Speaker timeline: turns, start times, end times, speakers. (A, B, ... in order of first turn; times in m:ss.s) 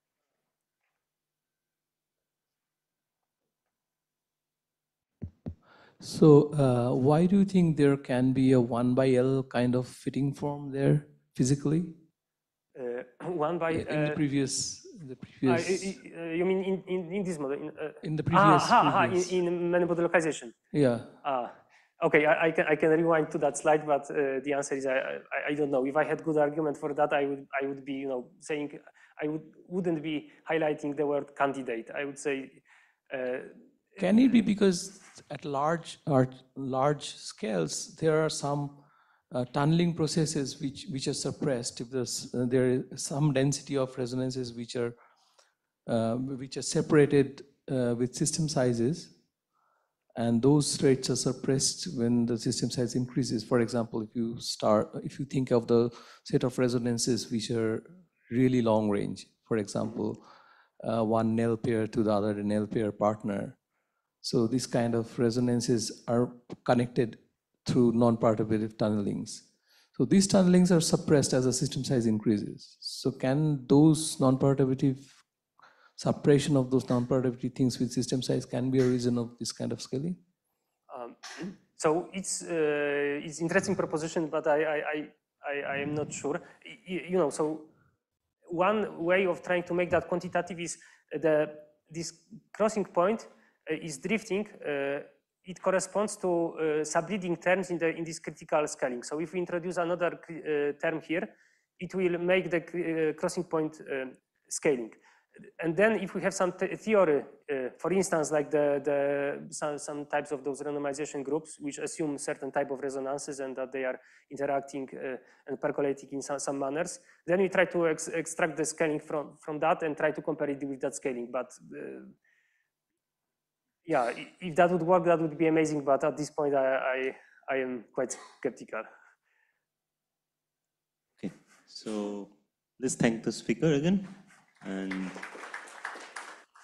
0:06.0-0:12.0 A
0:12.8-0:14.2 B
0:13.7-0:16.0 A
0:15.4-0:20.6 B
0:18.0-0:19.4 A
0:20.7-0:21.1 A
0:21.2-0:34.0 B
0:34.0-0:45.0 A
0:45.9-0:49.1 A
0:50.2-1:00.2 A
1:00.8-1:03.6 A
1:04.2-1:15.2 A
1:16.0-1:20.2 A
1:20.9-1:27.7 B
1:28.5-1:45.0 B
1:45.6-2:02.1 B
2:03.8-2:08.9 B
2:11.2-2:15.4 C